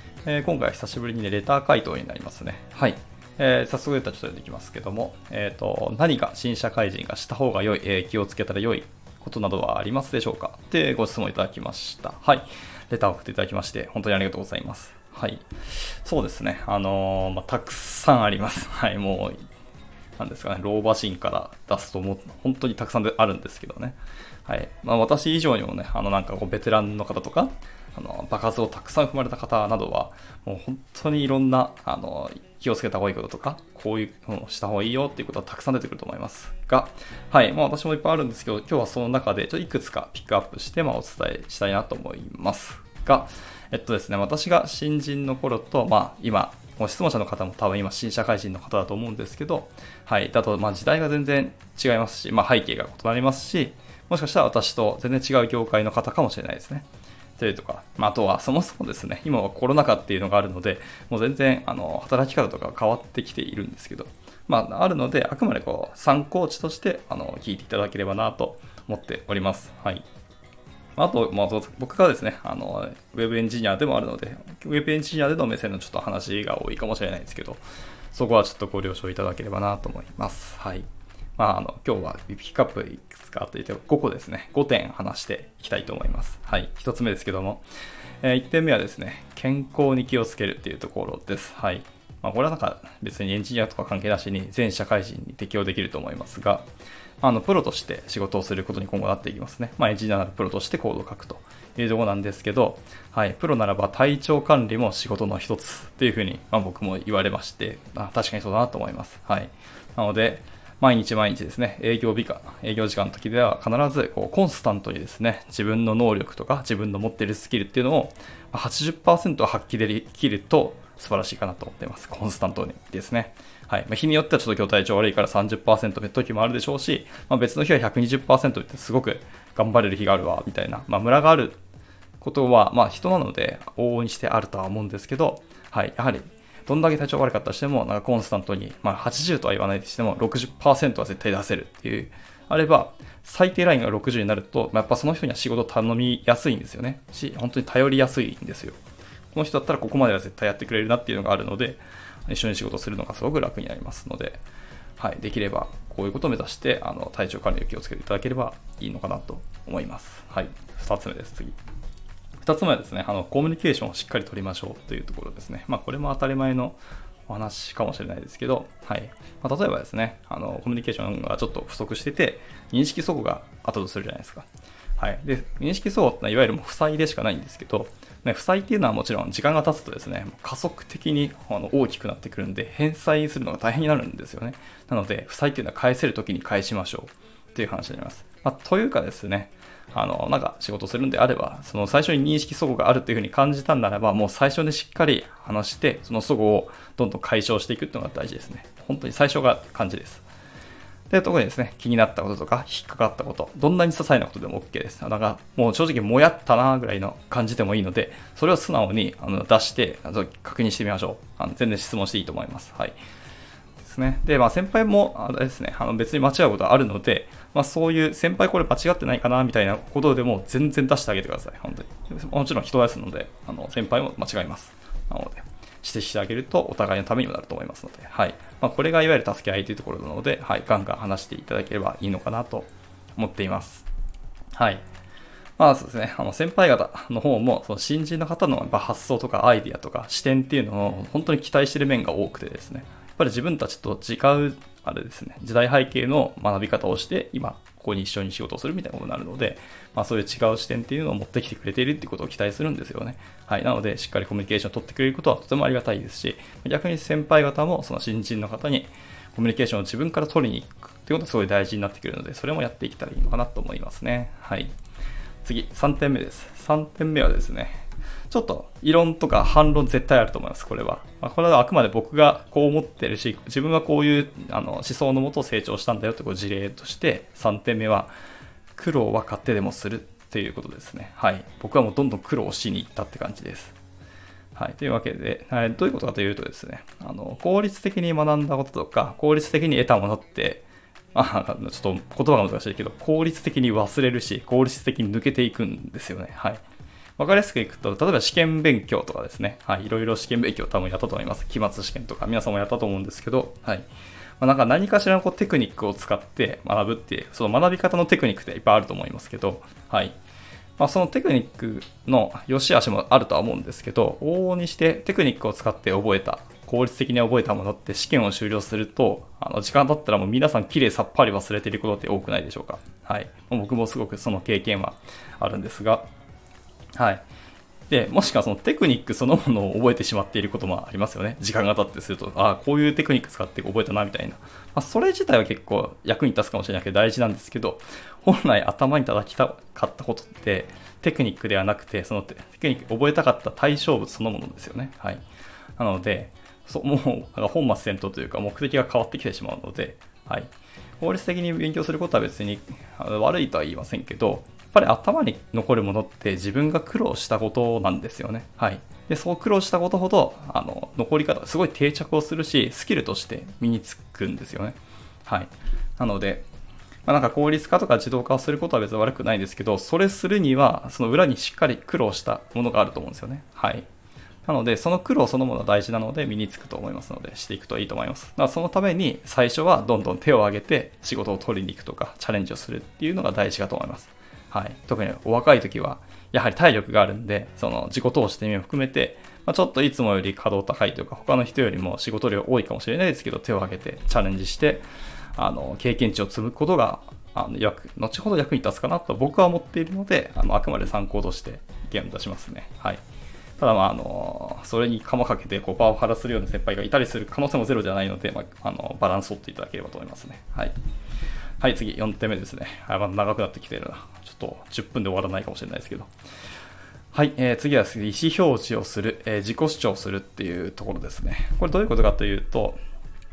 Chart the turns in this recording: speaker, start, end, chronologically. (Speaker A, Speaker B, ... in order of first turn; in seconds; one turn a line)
Speaker A: 0.2-19.4
Speaker A: 20.2-56.9
Speaker A: 57.4-70.0
Speaker A: 71.0-87.6
Speaker A: 88.2-96.7
Speaker A: 97.2-131.6
Speaker A: 132.2-148.8
Speaker A: 149.3-154.4
Speaker A: 155.0-161.6
Speaker A: 162.4-200.2
Speaker A: 201.1-212.9
Speaker A: 213.8-233.8
Speaker A: 234.5-234.8
Speaker A: 235.6-264.7
Speaker A: 265.4-278.1
Speaker A: 278.8-283.8
Speaker A: 284.6-296.6
Speaker A: 297.2-303.9
Speaker A: 304.4-310.1
Speaker A: 310.8-326.1
Speaker A: 326.9-327.3
Speaker A: 327.9-345.2
Speaker A: 345.8-366.5
Speaker A: 367.1-373.9
Speaker A: 374.4-394.8
Speaker A: 395.4-403.0
Speaker A: 403.6-410.7
Speaker A: 411.6-416.1
Speaker A: 417.1-422.8